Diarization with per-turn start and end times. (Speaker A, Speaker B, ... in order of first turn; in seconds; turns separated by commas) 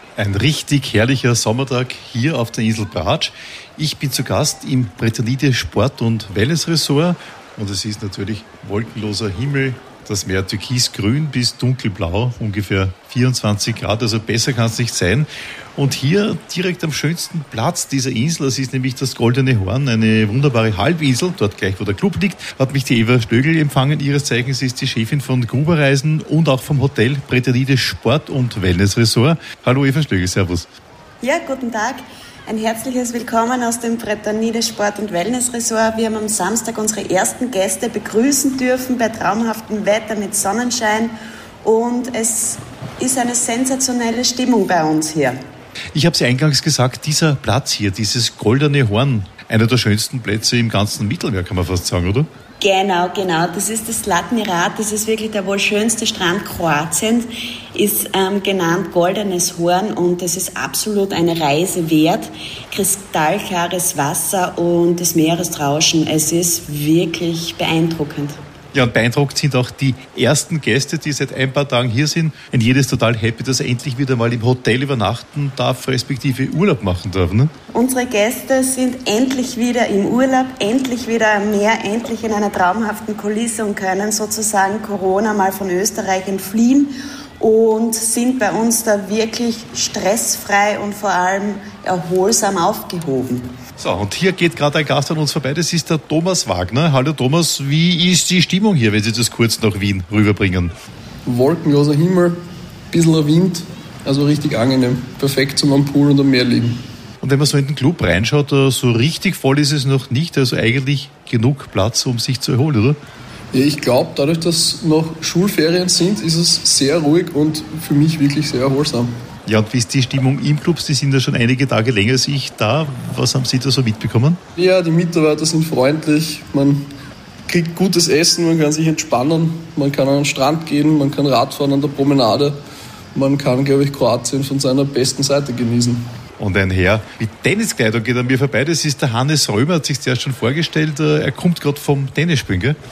Speaker A: 0.2-30.7, Speaker B: 31.2-41.1, Speaker B: 41.6-45.4, Speaker A: 45.9-52.3, Speaker B: 52.6-57.2, Speaker B: 57.8-68.4, Speaker A: 68.7-77.5, Speaker B: 77.7-93.5, Speaker A: 93.8-100.7, Speaker C: 101.2-102.4, Speaker C: 102.9-106.8, Speaker A: 107.2-113.0, Speaker C: 113.5-119.1, Speaker A: 119.5-124.4, Speaker C: 124.6-126.8, Speaker C: 127.5-132.6, Speaker C: 133.1-136.1, Speaker A: 136.4-142.8